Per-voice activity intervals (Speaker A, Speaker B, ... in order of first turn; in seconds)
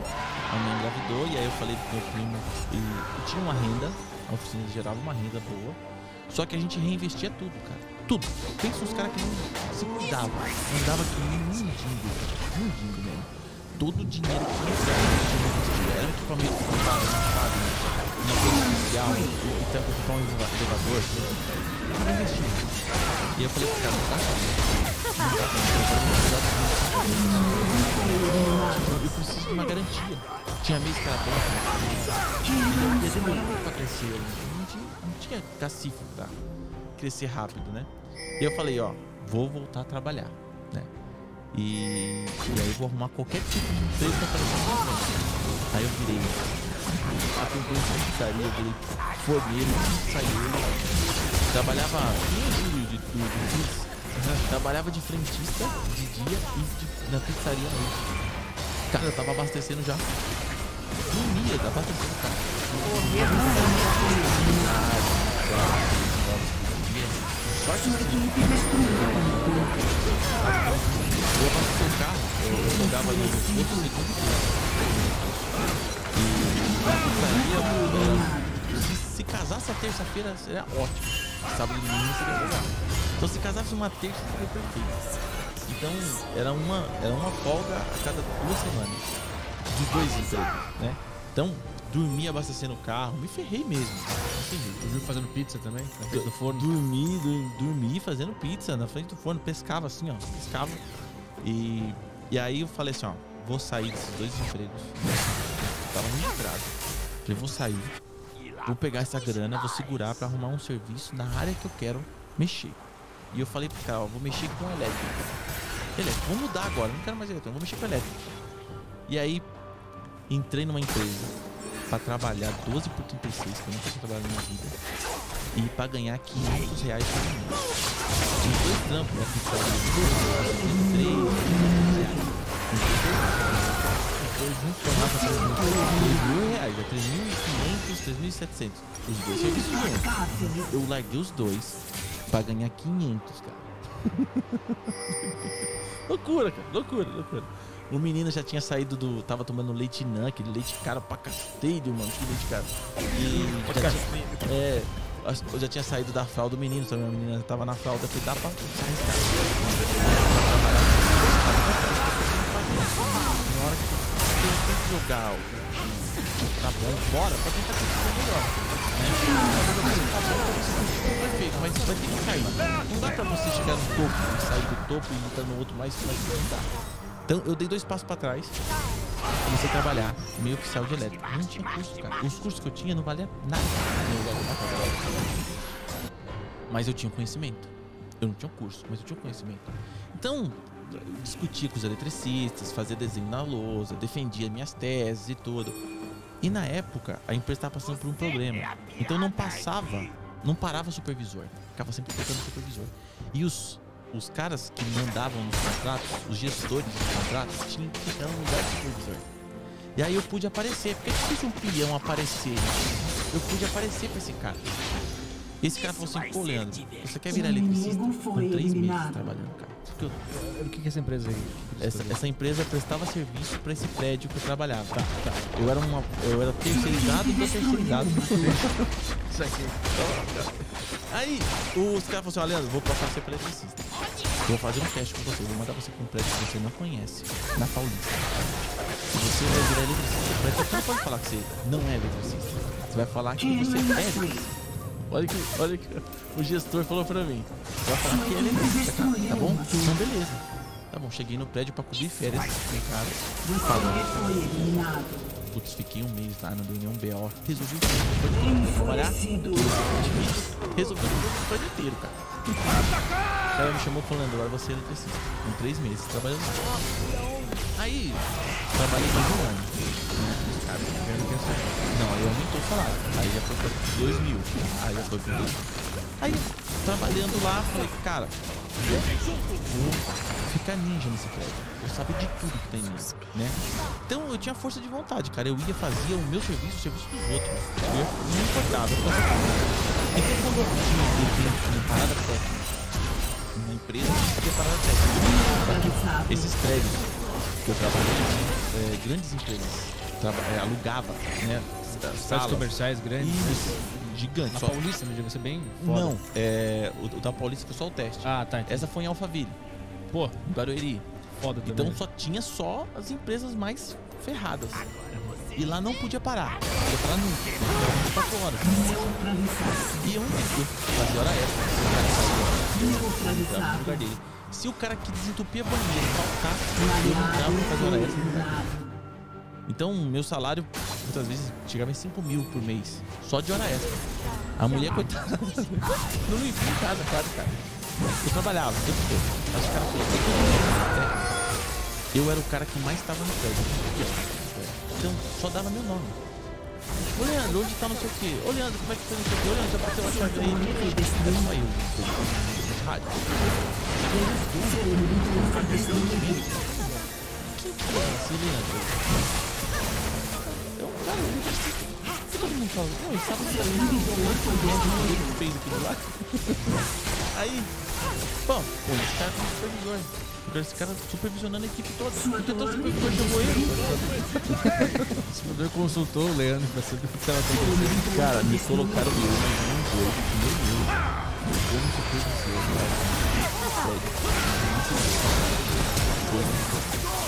Speaker A: 0.5-36.4, 37.0-40.9, 41.5-58.2, 58.9-60.1, 61.0-85.0, 85.6-89.0, 89.7-95.1, 96.1-100.8, 101.4-108.0, 108.6-112.8, 113.3-115.3, 116.0-118.2, 119.1-119.5, 120.3-121.3, 121.9-124.8, 125.5-127.6, 128.4-134.0, 134.9-145.5, 146.1-176.7, 177.3-178.6, 179.4-185.5, 186.7-195.8, 196.4-209.3, 209.9-214.7, 215.6-220.2, 221.8-228.7, 229.9-233.8, 234.4-244.5, 245.1-254.7, 255.4-262.8, 263.5-267.1, 267.7-271.1, 271.9-275.6, 276.2-278.4, 279.5-292.7, 293.5-304.8, 305.8-309.6, 310.4-311.1, 311.6-319.1, 320.0-328.5, 329.7-334.0, 334.6-337.6, 338.2-341.2, 342.1-346.2, 347.0-359.3, 360.5-366.8, 367.3-367.7, 368.4-375.1, 377.5-387.0
Speaker B: 18.4-19.3, 27.0-28.9, 32.4-33.5, 63.2-64.8, 67.8-69.8, 72.5-73.9, 77.0-78.6, 130.3-132.3, 134.9-136.5, 139.3-140.7, 217.3-219.3, 226.7-228.5, 243.4-244.5, 248.1-250.0, 253.4-255.2, 258.3-259.9, 295.2-296.5, 318.6-320.0, 322.7-324.0, 326.8-328.9, 350.0-351.5, 354.6-356.4, 363.5-365.3, 372.3-374.0, 377.5-379.4
Speaker C: 94.8-96.7, 134.2-136.2, 153.3-154.4, 220.2-222.2, 228.3-229.8, 271.0-272.0, 301.9-306.2, 308.2-308.9, 310.1-310.4, 311.4-312.0, 374.6-378.1